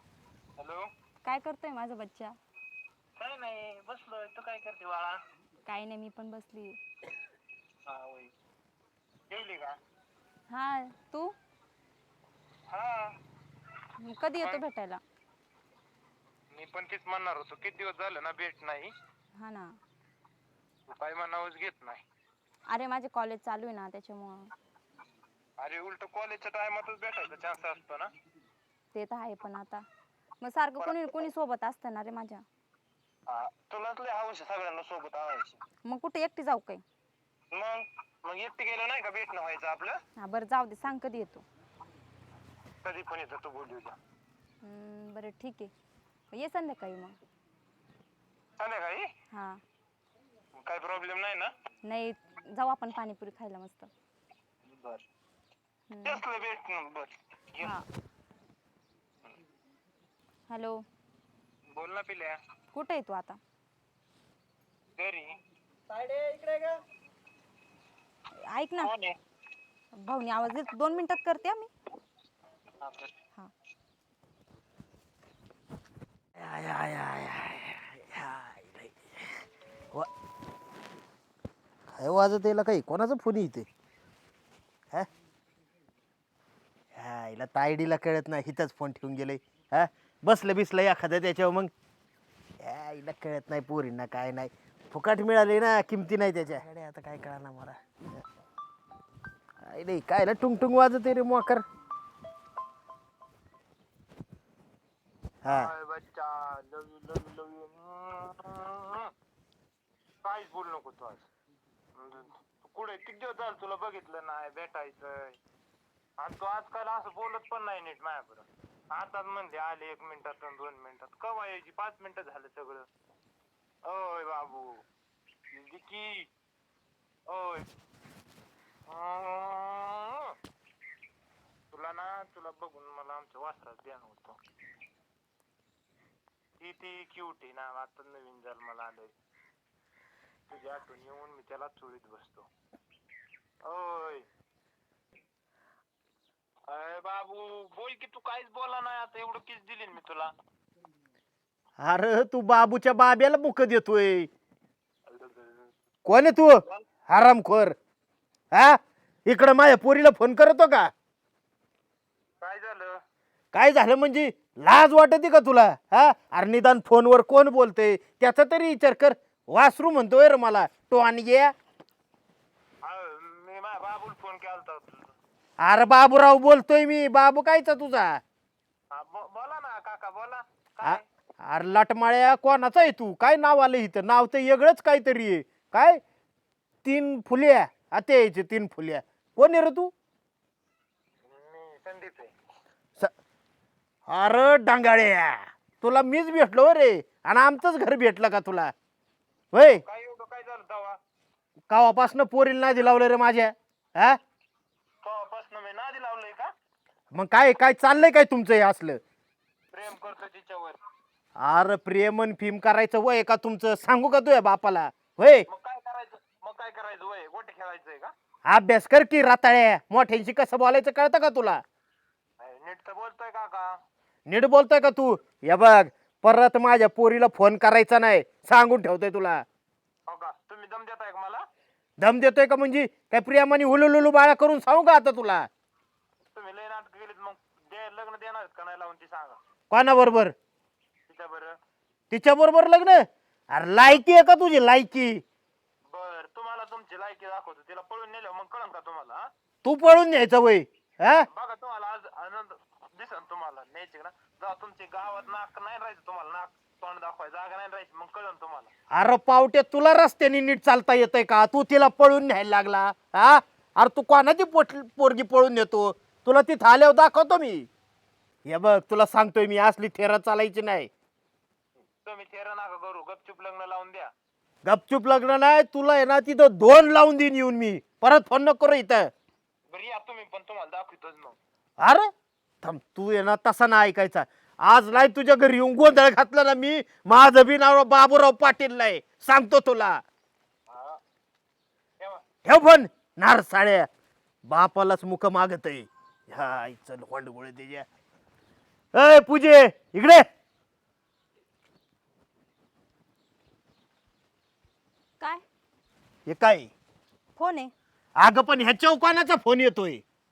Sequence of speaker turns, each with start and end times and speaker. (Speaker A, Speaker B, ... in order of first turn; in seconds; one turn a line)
Speaker A: 0.6-0.9
Speaker B: 1.2-2.4
Speaker A: 3.2-5.2
Speaker B: 5.7-6.8
Speaker A: 7.9-8.3
Speaker A: 9.3-9.8
Speaker B: 10.5-11.3
Speaker A: 12.7-13.1
Speaker B: 14.0-15.0
Speaker A: 16.5-18.9
Speaker B: 19.4-19.8
Speaker A: 20.9-22.0
Speaker B: 22.7-24.5
Speaker A: 25.6-28.1
Speaker B: 28.9-29.9
Speaker B: 30.4-32.5
Speaker A: 30.8-31.3
Speaker A: 33.3-35.6
Speaker B: 35.9-36.8
Speaker A: 37.5-40.0
Speaker B: 40.2-41.4
Speaker A: 42.8-44.0
Speaker B: 44.6-45.7
Speaker B: 46.3-47.2
Speaker A: 48.6-49.1
Speaker B: 49.3-49.6
Speaker A: 50.6-51.5
Speaker B: 51.9-53.9
Speaker A: 54.7-55.0
Speaker B: 55.9-56.2
Speaker A: 56.0-57.8
Speaker B: 57.6-57.9
Speaker B: 60.5-60.8
Speaker A: 61.7-62.4
Speaker B: 62.7-63.4
Speaker A: 65.0-65.3
Speaker A: 66.1-66.6
Speaker B: 68.5-68.9
Speaker A: 68.8-69.2
Speaker B: 70.0-71.7
Speaker A: 72.8-73.1
Speaker C: 76.4-79.1
Speaker C: 81.9-83.7
Speaker C: 86.9-91.7
Speaker C: 92.6-98.2
Speaker C: 99.6-101.6
Speaker C: 105.4-105.7
Speaker A: 105.5-109.1
Speaker A: 110.2-111.3
Speaker A: 112.0-115.4
Speaker A: 116.2-122.9
Speaker A: 123.9-124.8
Speaker A: 125.5-126.3
Speaker A: 127.3-127.7
Speaker A: 128.9-130.4
Speaker A: 131.7-134.4
Speaker A: 136.6-139.1
Speaker A: 140.5-142.5
Speaker A: 143.7-144.3
Speaker A: 146.7-150.3
Speaker C: 151.8-154.3
Speaker A: 155.1-155.7
Speaker C: 156.1-157.8
Speaker C: 158.5-160.9
Speaker A: 162.4-163.0
Speaker C: 163.5-171.5
Speaker A: 172.8-175.1
Speaker C: 175.6-178.2
Speaker A: 178.9-181.1
Speaker C: 180.8-186.0
Speaker C: 186.8-189.9
Speaker A: 191.3-192.3
Speaker C: 194.1-198.7
Speaker C: 199.5-199.8
Speaker A: 199.8-201.0
Speaker C: 201.7-204.2
Speaker A: 205.0-206.5
Speaker C: 207.1-209.0
Speaker A: 209.7-210.8
Speaker C: 211.4-215.5
Speaker A: 215.5-218.1
Speaker C: 218.5-221.6
Speaker A: 222.4-223.7
Speaker C: 224.3-229.4
Speaker A: 230.1-231.4
Speaker C: 232.0-235.5
Speaker A: 236.3-239.4
Speaker C: 239.7-240.3
Speaker A: 241.1-241.6
Speaker C: 242.1-245.2
Speaker A: 245.9-249.2
Speaker C: 249.6-251.3
Speaker A: 251.3-258.7
Speaker C: 258.9-267.7
Speaker C: 268.5-270.9
Speaker A: 272.0-274.1
Speaker C: 274.7-279.1
Speaker A: 279.7-281.4
Speaker C: 281.8-282.1
Speaker C: 282.6-290.0
Speaker A: 290.7-291.0
Speaker C: 292.4-293.9
Speaker C: 294.5-297.9
Speaker C: 298.9-300.2
Speaker C: 306.3-306.7
Speaker B: 307.4-307.7
Speaker C: 308.2-310.0